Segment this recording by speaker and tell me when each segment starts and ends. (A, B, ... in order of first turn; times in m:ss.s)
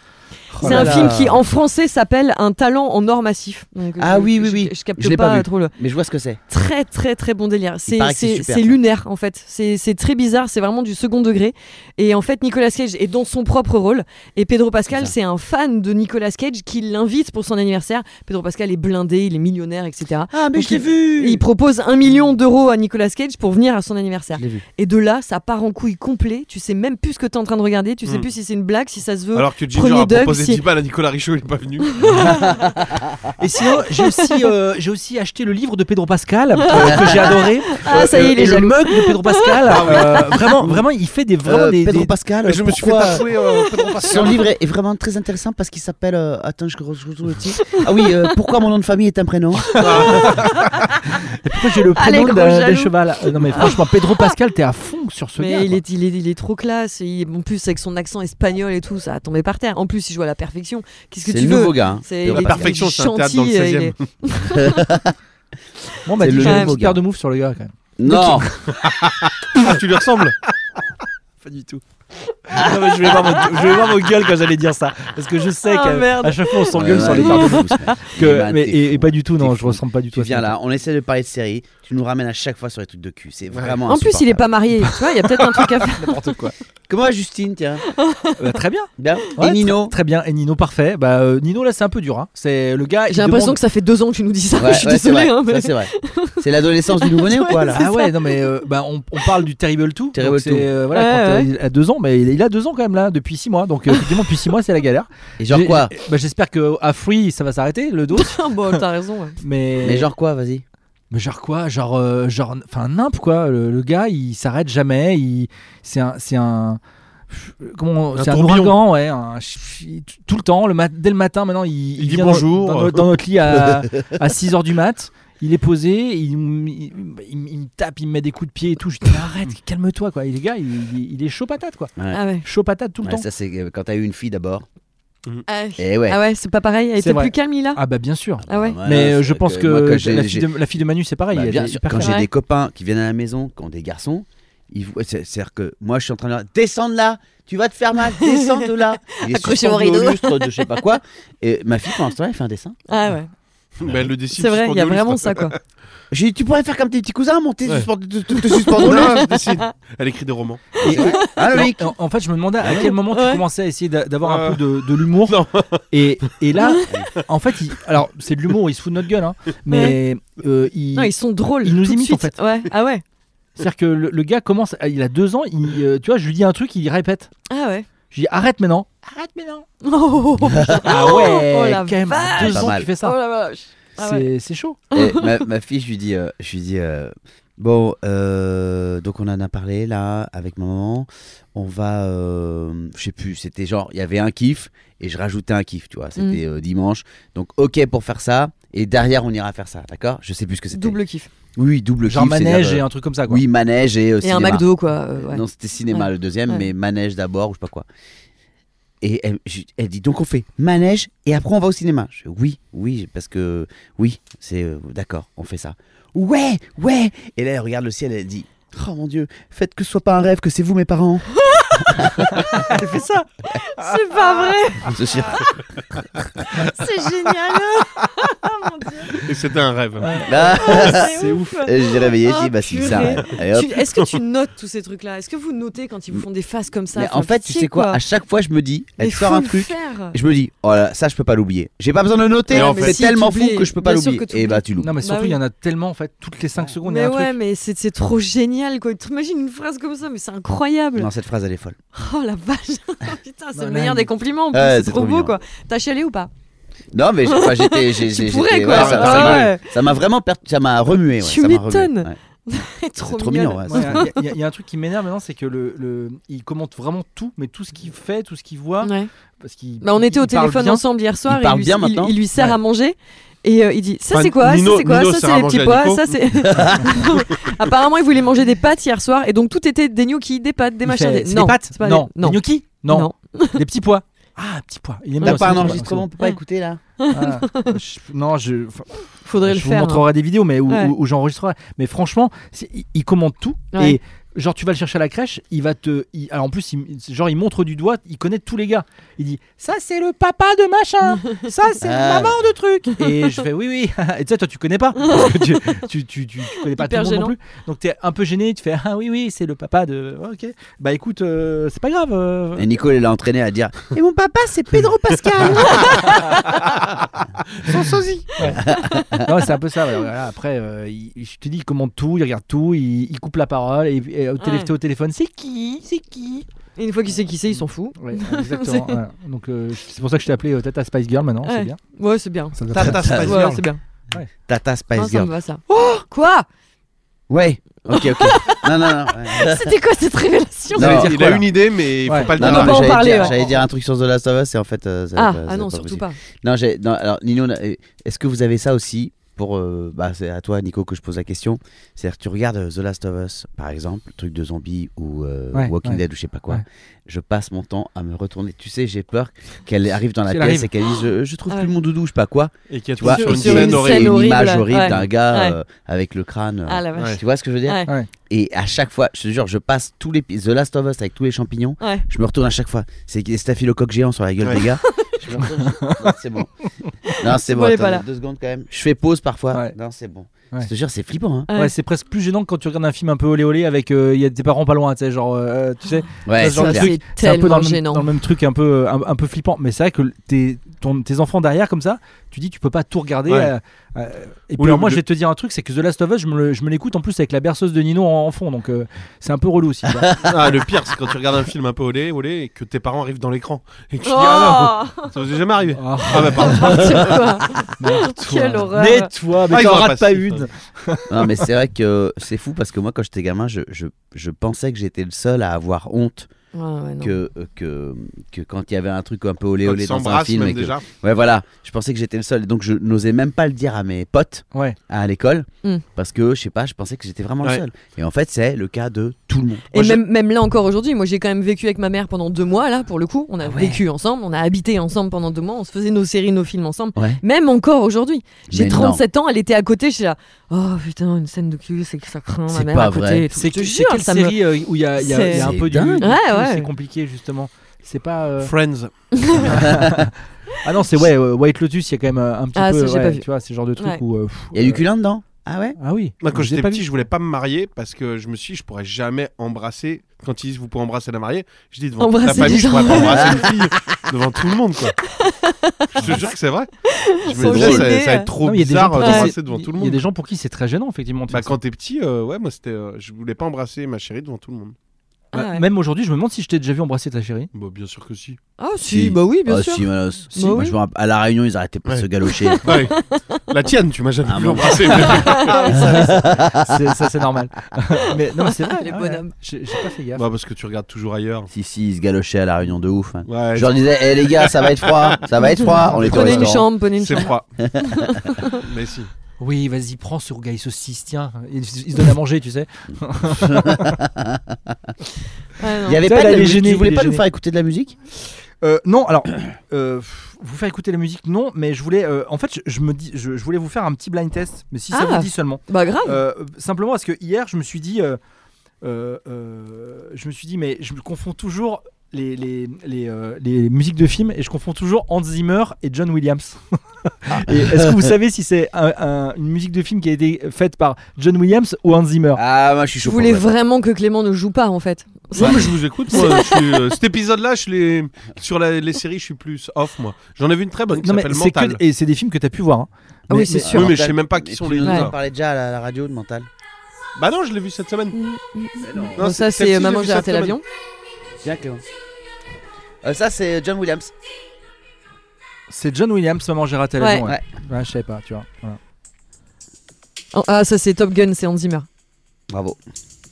0:00.6-0:01.1 A
0:00.6-0:05.7 B
0:00.6-0:01.4 C
0:04.0-0:06.4 C
0:06.5-0:30.6 B
0:07.9-0:08.8 C
0:20.3-0:21.4 C
0:24.3-0:24.6 C
0:29.4-0:32.1 D
0:32.0-0:32.5 B
0:32.2-0:33.2 C
0:33.4-0:42.1 A
0:34.0-0:34.5 B
0:36.8-0:40.2 B
0:36.8-0:37.3 C
0:37.9-0:38.2 D
0:39.6-0:40.4 D
0:41.4-0:43.3 C
0:42.4-0:44.4 D
0:43.4-0:44.1 B
0:44.0-0:50.3 C
0:49.8-0:50.4 A
0:49.8-0:50.6 D
0:51.4-0:55.8 A
0:52.0-0:53.0 B
0:53.5-0:54.3 B
0:55.4-1:04.9 B
1:01.2-1:02.7 C
1:02.3-1:04.0 D
1:04.6-1:05.1 C
1:06.1-1:08.5 A
1:06.2-1:07.0 C
1:06.3-1:06.7 B
1:08.0-1:08.5 C
1:08.8-1:10.4 D
1:11.4-1:11.8 A
1:12.5-1:20.5 A
1:13.1-1:13.9 B
1:15.7-1:18.0 B
1:16.7-1:24.5 C
1:23.5-1:23.8 D
1:23.9-1:26.2 B
1:25.5-1:26.6 A
1:26.9-1:27.8 C
1:27.9-1:28.5 B
1:28.4-1:33.6 A
1:29.0-1:30.0 C
1:33.1-1:36.4 B
1:34.6-1:37.8 C
1:37.0-1:38.5 B
1:37.8-1:48.8 A
1:40.1-1:40.7 C
1:40.9-1:41.5 B
1:45.4-1:45.9 C
1:48.1-1:49.4 B
1:49.4-1:50.1 A
1:49.8-1:50.6 C
1:51.1-2:13.2 A
1:58.2-1:58.7 D
2:02.0-2:03.0 D
2:12.1-2:12.4 B
2:13.0-2:14.7 C
2:15.5-2:17.8 B
2:15.8-2:16.2 C
2:17.0-2:22.2 A
2:18.4-2:20.5 C
2:18.5-2:18.8 B
2:21.3-2:32.8 C
2:22.0-2:22.3 B
2:28.2-2:30.7 B
2:32.9-2:33.3 B
2:33.8-2:35.6 D
2:34.4-2:35.5 B
2:36.1-2:39.3 C
2:38.6-2:40.8 D
2:38.8-2:39.7 B
2:40.8-2:41.5 B
2:40.8-2:45.4 A
2:40.8-2:41.9 C
2:43.1-2:43.4 B
2:44.2-2:44.6 D
2:45.2-2:45.8 D
2:45.9-2:52.4 A
2:49.7-2:50.0 B
2:51.0-2:53.0 B
2:53.6-2:57.3 A
2:57.5-2:57.9 B
2:58.1-2:59.6 A
2:59.8-3:04.3 B
3:00.6-3:00.9 C
3:00.7-3:03.2 A
3:02.4-3:02.9 C
3:04.0-3:04.8 A
3:04.9-3:05.3 B
3:04.9-3:21.0 C
3:20.7-3:21.3 B
3:21.6-3:24.7 C
3:22.1-3:23.4 A
3:24.2-3:26.7 B
3:25.2-3:27.9 C
3:29.0-3:42.8 C
3:41.4-3:42.1 B
3:42.6-3:43.3 A
3:43.4-3:45.4 B
3:43.8-3:44.2 A
3:44.8-3:45.5 C
3:46.7-3:49.2 B
3:49.1-3:50.1 D
3:50.0-3:51.6 A
3:50.2-3:53.8 C
3:50.4-3:58.0 B
3:56.9-4:04.9 C
3:59.0-4:00.2 B
4:02.5-4:05.4 B
4:02.5-4:03.0 D
4:04.8-4:07.4 A
4:06.8-4:11.1 B
4:11.0-4:11.8 C
4:12.0-4:16.3 B
4:13.6-4:14.1 A
4:14.5-4:15.4 C
4:16.9-4:22.2 C
4:17.3-4:19.7 B
4:18.7-4:19.5 D
4:21.2-4:24.2 B
4:23.0-4:24.1 C
4:23.7-4:30.8 A
4:28.8-4:29.1 B
4:29.8-4:43.6 B
4:31.3-4:32.2 C
4:34.1-4:36.1 D
4:36.5-4:36.8 C
4:40.8-4:46.1 A
4:45.2-4:46.4 B
4:45.2-4:46.8 C
4:47.0-4:47.8 B
4:47.1-5:12.7 A
4:49.2-4:50.1 B
4:50.7-4:50.9 B
4:53.7-4:54.0 B
5:01.8-5:02.4 C
5:05.0-5:05.8 B
5:06.7-5:07.4 B
5:12.6-5:16.2 C
5:15.7-5:16.1 D
5:17.6-5:18.5 D
5:18.4-5:18.6 A
5:18.6-5:19.3 C
5:19.2-5:26.5 A
5:24.4-5:24.7 B
5:26.8-5:29.0 B
5:28.0-5:31.8 A
5:31.4-5:32.6 B
5:32.6-5:33.6 A
5:32.7-5:33.6 D
5:32.8-5:33.3 C
5:33.2-5:33.8 B
5:34.5-5:35.3 C
5:35.0-5:36.5 B
5:37.3-5:39.8 C
5:37.9-5:41.0 B
5:40.7-5:41.2 C
5:40.7-5:41.5 A
5:40.8-5:43.3 D
5:42.0-5:42.3 A
5:42.4-6:16.5 C
5:42.4-5:43.5 B
5:45.2-5:46.2 B
5:55.5-5:56.6 A
6:00.3-6:00.7 A
6:02.7-6:04.2 D
6:03.0-6:05.6 B
6:06.7-6:07.9 B
6:11.8-6:12.0 B
6:14.8-6:15.2 B
6:15.6-6:16.2 A
6:17.1-6:18.0 B
6:17.2-6:21.5 C
6:21.6-6:40.2 A
6:26.2-6:26.9 C
6:26.5-6:28.1 B
6:34.6-6:35.0 D
6:40.3-6:47.2 D
6:44.0-6:45.1 B
6:45.8-6:47.0 A
6:46.4-6:49.1 B
6:47.8-6:51.4 A
6:49.5-6:50.5 D
6:51.1-6:56.3 C
6:56.5-6:57.2 B
6:57.0-7:10.0 C
6:59.6-7:00.8 D
7:09.7-7:24.4 B
7:13.4-7:13.8 C
7:17.0-7:17.2 C
7:18.5-7:19.0 C
7:22.5-7:23.3 C
7:23.4-7:28.5 A
7:25.0-7:25.5 B
7:25.3-7:26.1 C
7:26.0-7:26.7 B
7:28.4-7:29.5 D
7:29.2-7:29.5 B
7:29.5-7:34.8 A
7:29.6-7:30.1 C
7:32.6-7:33.2 B
7:34.5-7:35.8 C
7:35.8-7:36.8 A
7:36.2-7:45.0 D
7:42.0-7:44.0 B
7:42.9-7:43.5 C
7:45.1-7:46.0 B
7:46.0-7:46.7 D
7:46.8-7:48.3 B
7:47.2-7:50.0 D
7:47.4-7:47.9 A
7:48.4-7:51.6 A
7:49.0-7:49.3 B
7:51.3-7:54.8 D
7:55.3-7:55.6 B
7:55.3-7:57.5 A
7:57.5-7:58.4 D
7:58.6-8:00.8 B
7:58.9-8:02.8 C
8:02.4-8:03.4 B
8:02.6-8:03.0 D
8:03.5-8:05.9 D
8:04.2-8:06.9 C
8:05.0-8:06.3 B
8:06.6-8:10.2 A
8:08.5-8:09.3 B
8:10.2-8:11.5 D
8:11.5-8:16.7 C
8:13.3-8:15.2 D
8:15.6-8:17.3 B
8:15.9-8:17.5 D
8:17.8-8:18.6 B
8:18.6-8:19.1 D
8:19.4-8:24.0 A
8:23.4-8:24.8 C
8:25.6-8:26.0 B
8:25.8-8:28.0 C
8:25.9-8:27.2 A
8:28.6-8:38.2 A
8:34.9-8:36.2 B
8:38.8-8:52.4 A
8:47.3-8:48.1 C
8:52.4-8:53.5 C
8:53.0-8:56.8 B
8:55.4-9:01.8 D
9:01.0-9:03.7 A
9:03.3-9:03.9 B
9:03.6-9:06.5 C
9:03.7-9:05.2 D
9:04.8-9:05.1 B
9:07.2-9:08.2 D
9:08.1-9:10.6 B
9:08.8-9:09.2 C
9:09.2-9:10.6 D
9:11.4-9:11.8 C
9:13.0-9:14.1 C
9:15.7-9:18.8 A
9:17.0-9:17.3 B
9:20.3-9:21.9 B
9:22.5-9:22.8 C